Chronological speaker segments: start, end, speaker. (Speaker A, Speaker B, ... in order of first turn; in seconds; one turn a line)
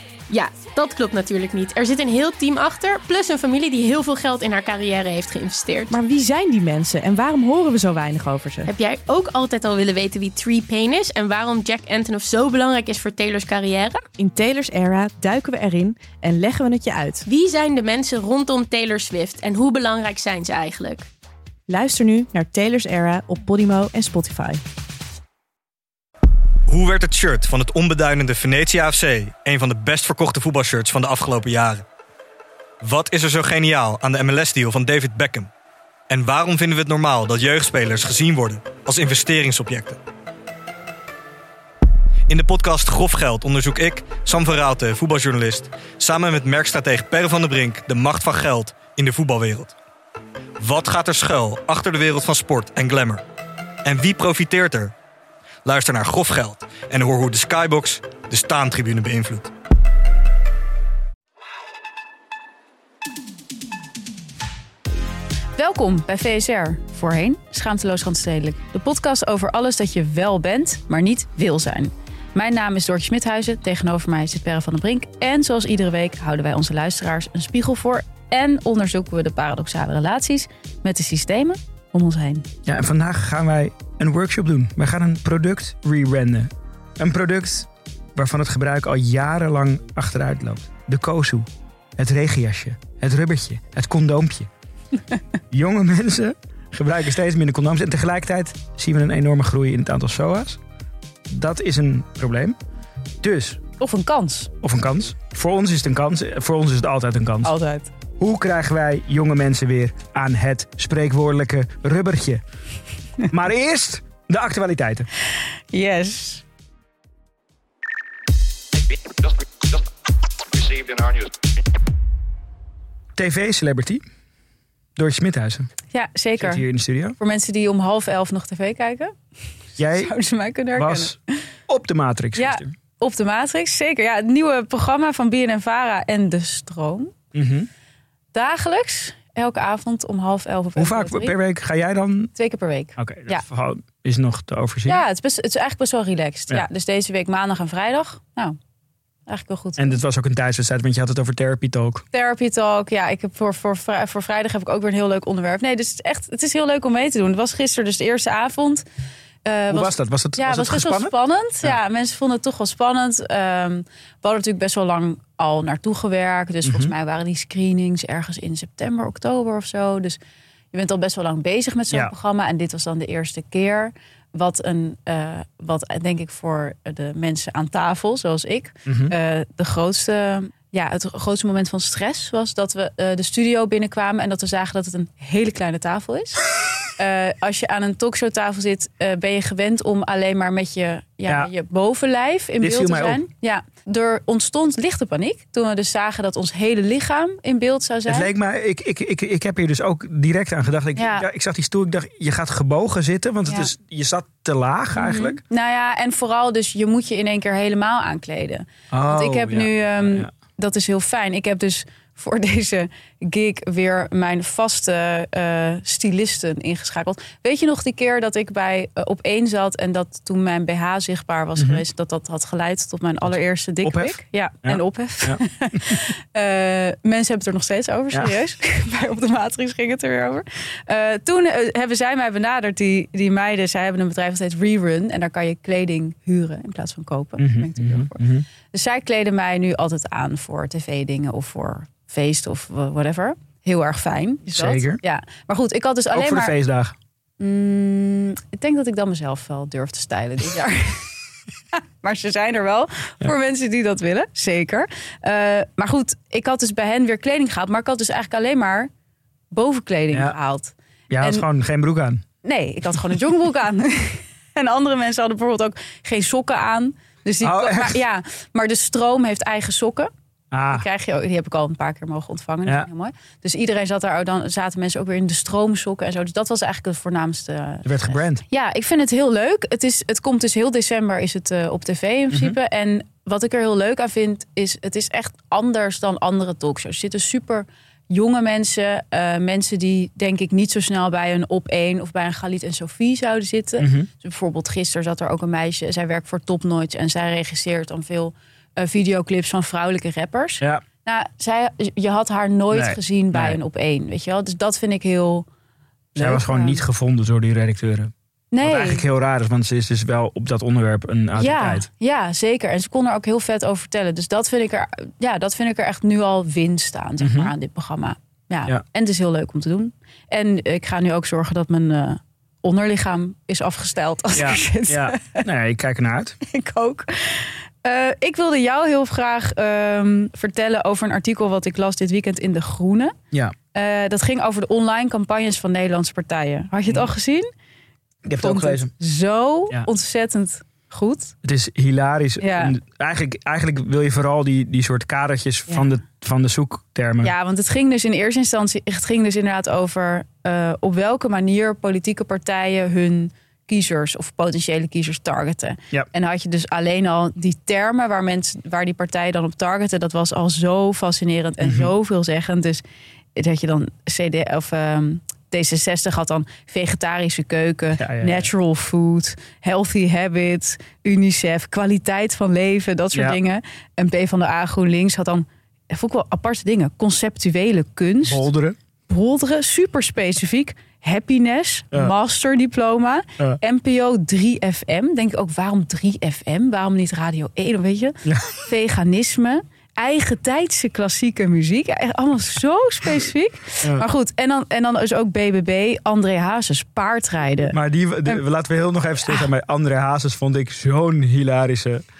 Speaker A: 0.3-5.9
Speaker B: 5.9-8.7
Speaker A: 8.7-14.1
Speaker B: 14.1-17.2
Speaker A: 17.2-21.1
Speaker B: 21.7-24.6
Speaker C: 26.7-31.8
Speaker C: 32.8-35.5
Speaker C: 36.1-40.0
Speaker C: 42.3-49.7
Speaker C: 50.6-53.2
Speaker C: 53.8-54.9
Speaker C: 55.6-59.5
Speaker D: 65.5-82.5
Speaker E: 82.6-94.5
Speaker E: 95.5-100.6
Speaker E: 101.3-102.5
Speaker E: 103.2-103.6
Speaker D: 103.8-104.5
Speaker E: 104.6-107.5
Speaker D: 107.4-107.9
Speaker E: 108.2-112.4
Speaker E: 113.3-115.1
Speaker D: 115.7-116.4
Speaker E: 123.2-124.0
Speaker E: 125.0-125.7
Speaker D: 125.9-126.6
Speaker E: 126.4-127.2
Speaker D: 127.2-129.2
Speaker E: 129.8-130.1
Speaker D: 129.9-131.4
Speaker E: 130.7-131.2
Speaker E: 131.7-132.7
Speaker D: 132.3-137.1
Speaker E: 137.3-137.7
Speaker D: 138.3-141.3
Speaker E: 140.8-142.3
Speaker D: 142.3-143.4
Speaker E: 143.0-145.0
Speaker D: 144.9-148.6
Speaker D: 149.3-150.0
Speaker E: 149.8-152.0
Speaker D: 152.1-158.8
Speaker D: 159.4-170.2
Speaker E: 159.7-161.8
Speaker E: 166.6-166.9
Speaker D: 170.7-186.4
Speaker E: 178.8-179.1
Speaker D: 186.9-198.3
Speaker E: 192.6-193.2
Speaker E: 198.1-205.4
Speaker D: 200.9-201.2
Speaker D: 204.9-246.5
Speaker E: 208.9-210.3
Speaker E: 221.6-221.8
Speaker E: 223.8-226.0
Speaker E: 237.4-238.4
Speaker E: 244.5-245.0
Speaker E: 246.1-247.0
Speaker D: 247.4-251.1
Speaker D: 251.7-258.9
Speaker D: 259.5-261.4
Speaker E: 261.1-262.2
Speaker D: 262.4-270.1
Speaker E: 267.4-268.0
Speaker E: 270.5-270.9
Speaker D: 270.7-305.4
Speaker E: 277.8-278.4
Speaker E: 282.3-282.6
Speaker E: 293.8-294.1
Speaker E: 302.7-303.6
Speaker D: 306.1-306.8
Speaker E: 306.1-311.9
Speaker D: 308.5-309.0
Speaker D: 311.4-325.4
Speaker E: 317.2-317.5
Speaker E: 324.3-326.4
Speaker D: 326.4-333.1
Speaker D: 333.7-337.5
Speaker E: 338.2-338.9
Speaker D: 338.4-341.3
Speaker E: 341.4-347.3
Speaker D: 342.4-342.7
Speaker D: 347.2-362.8
Speaker E: 361.6-361.9
Speaker D: 363.3-378.5
Speaker E: 368.0-368.5
Speaker E: 373.1-373.4
Speaker E: 378.2-378.8
Speaker D: 379.1-397.7
Speaker E: 388.2-388.6
Speaker E: 397.7-402.0